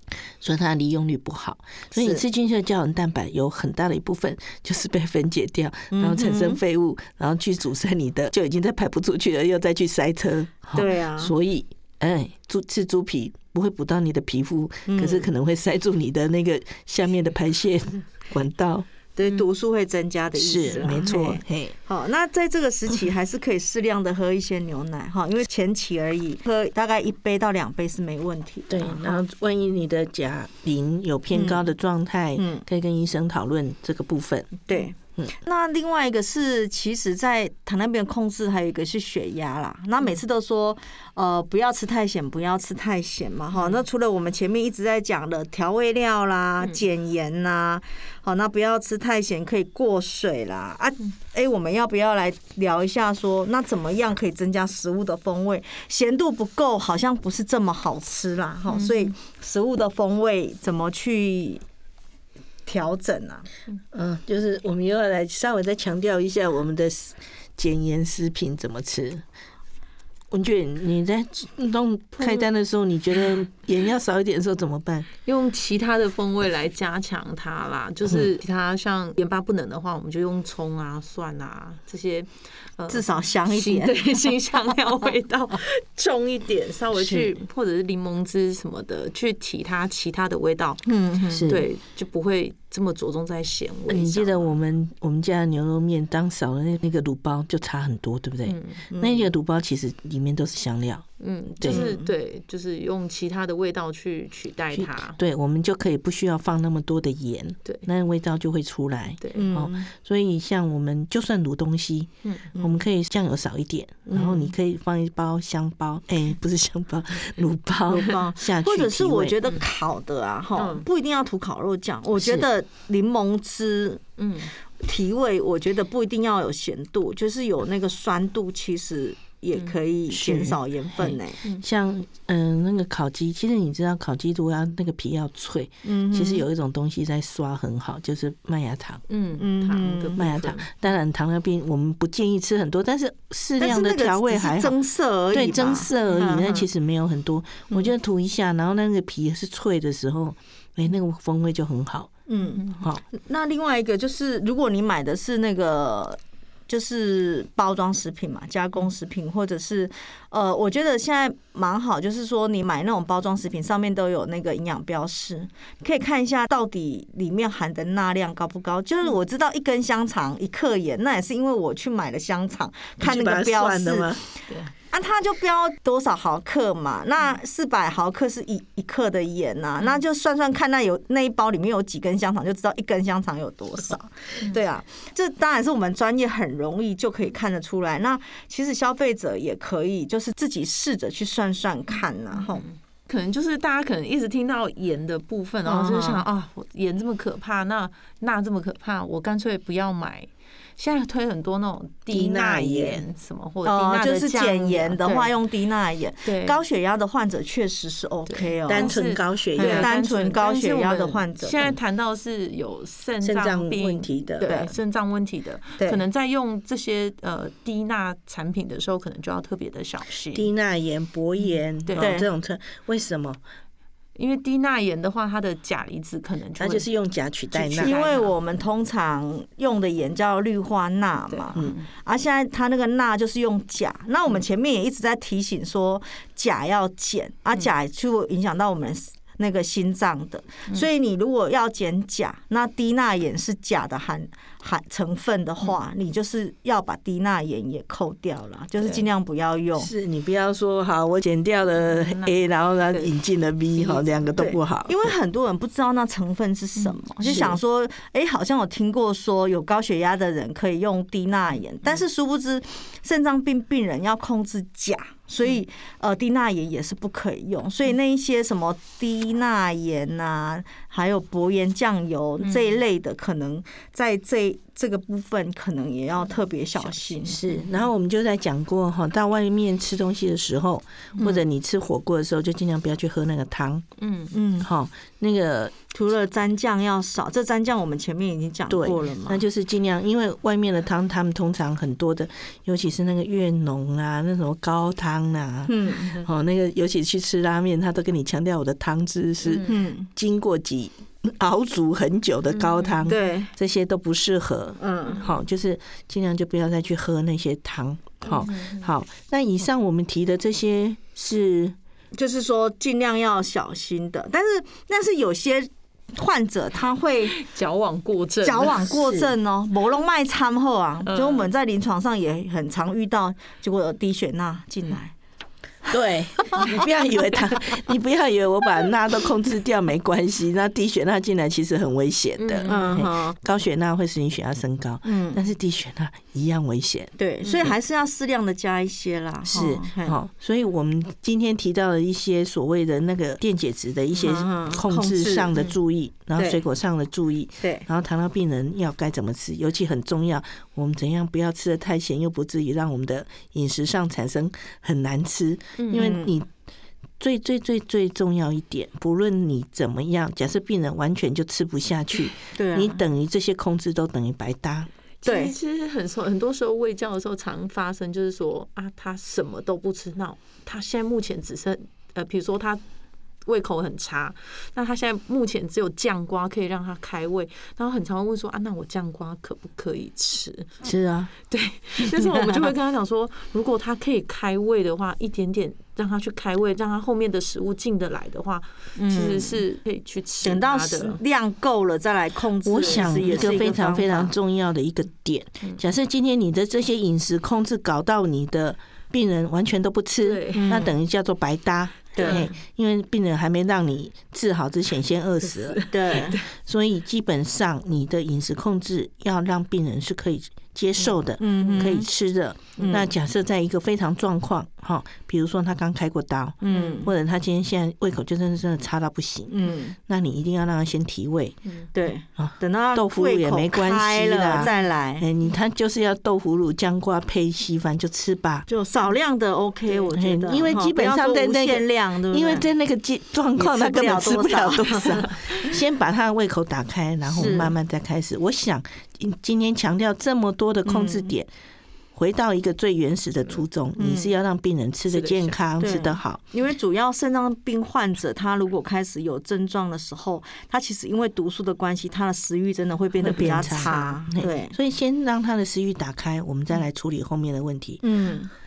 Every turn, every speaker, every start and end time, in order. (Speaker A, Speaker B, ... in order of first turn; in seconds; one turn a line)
Speaker A: 0.4-18.9
Speaker B: 1.9-2.2
Speaker B: 5.9-6.6
Speaker B: 10.7-11.3
Speaker B: 14.9-15.3
Speaker B: 19.1-29.2
Speaker A: 20.4-21.7
Speaker A: 28.7-34.6
Speaker B: 31.3-31.6
Speaker B: 32.4-32.6
Speaker B: 34.7-61.6
Speaker C: 43.5-43.8
Speaker C: 58.7-59.1
Speaker B: 62.6-63.5
Speaker A: 63.9-69.2
Speaker A: 70.3-75.1
Speaker C: 75.2-90.8
Speaker B: 82.9-84.0
Speaker A: 86.9-87.3
Speaker B: 90.8-91.4
Speaker A: 91.3-91.7
Speaker C: 91.5-94.5
Speaker A: 93.9-101.0
Speaker C: 98.4-98.8
Speaker B: 98.9-99.2
Speaker C: 101.2-105.2
Speaker A: 101.6-101.9
Speaker B: 101.6-102.1
Speaker A: 104.7-119.4
Speaker C: 109.2-109.5
Speaker B: 109.3-109.9
Speaker C: 112.2-112.5
Speaker B: 114.1-114.4
Speaker B: 117.9-124.0
Speaker C: 120.5-120.8
Speaker A: 122.2-122.5
Speaker C: 124.2-124.5
Speaker B: 124.8-131.4
Speaker A: 130.1-130.6
Speaker C: 131.0-131.6
Speaker A: 131.6-139.0
Speaker B: 135.8-136.4
Speaker C: 139.1-140.8
Speaker B: 139.4-140.3
Speaker A: 140.2-144.8
Speaker B: 143.6-146.6
Speaker A: 145.3-152.1
Speaker B: 152.3-174.1
Speaker A: 152.8-153.0
Speaker A: 173.0-174.2
Speaker B: 174.9-192.7
Speaker C: 192.4-205.3
Speaker B: 195.7-196.2
Speaker A: 202.1-203.0
Speaker B: 203.6-208.9
Speaker C: 206.2-206.6
Speaker C: 208.3-220.5
Speaker A: 208.7-209.9
Speaker B: 209.6-211.8
Speaker A: 213.2-214.5
Speaker B: 214.4-214.7
Speaker A: 220.3-223.4
Speaker C: 221.4-222.1
Speaker B: 222.0-222.3
Speaker C: 224.2-226.9
Speaker A: 226.6-227.9
Speaker B: 227.5-249.9
Speaker C: 227.7-228.3
Speaker C: 231.3-231.9
Speaker A: 249.8-255.1
Speaker C: 251.8-252.3
Speaker C: 253.8-254.2
Speaker B: 254.3-277.4
Speaker C: 256.8-257.5
Speaker A: 257.3-257.6
Speaker C: 272.4-272.8
Speaker A: 277.2-283.9
Speaker C: 277.5-277.7
Speaker B: 281.2-281.4
Speaker C: 284.0-284.3
Speaker B: 284.3-284.7
Speaker A: 284.6-285.8
Speaker B: 285.9-289.4
Speaker A: 288.7-311.8
Speaker B: 295.7-296.2
Speaker C: 299.4-299.8
Speaker B: 299.6-300.1
Speaker C: 302.5-303.0
Speaker B: 303.1-303.5
Speaker B: 304.8-305.2
Speaker C: 308.3-308.9
Speaker B: 312.1-317.4
Speaker C: 317.3-319.3
Speaker B: 318.4-325.1
Speaker C: 321.1-321.5
Speaker A: 325.9-337.1
Speaker C: 332.4-333.1
Speaker B: 332.7-333.4
Speaker B: 335.0-335.4
Speaker B: 337.2-340.1
Speaker A: 339.5-356.5
Speaker B: 344.1-345.5
Speaker B: 346.4-346.6
Speaker B: 347.6-347.9
Speaker C: 355.8-356.1
Speaker B: 355.9-356.4
Speaker A: 357.2-364.9
Speaker B: 362.5-363.0
Speaker C: 365.2-372.8
Speaker B: 365.2-365.5
Speaker C: 373.4-380.7
Speaker A: 380.8-381.3
Speaker C: 381.5-391.2
Speaker B: 382.1-382.6
Speaker B: 388.9-389.6
Speaker B: 390.4-394.3
Speaker A: 392.6-421.6
Speaker C: 392.8-393.5
Speaker C: 400.2-400.8
Speaker B: 400.6-400.9
Speaker B: 402.1-402.5
Speaker C: 402.2-402.5
Speaker C: 405.5-406.5
Speaker B: 405.9-406.4
Speaker B: 411.4-412.1
Speaker B: 412.8-413.1
Speaker B: 416.6-417.1
Speaker C: 416.7-417.0
Speaker B: 419.5-419.9
Speaker B: 421.9-425.2
Speaker A: 422.4-428.7
Speaker B: 428.7-432.7
Speaker A: 430.1-441.5
Speaker B: 433.6-435.4
Speaker B: 437.4-437.7
Speaker B: 440.9-441.3
Speaker A: 442.1-446.4
Speaker B: 444.0-444.3
Speaker C: 445.1-445.6
Speaker B: 445.8-454.8
Speaker A: 453.2-458.0
Speaker B: 458.0-458.5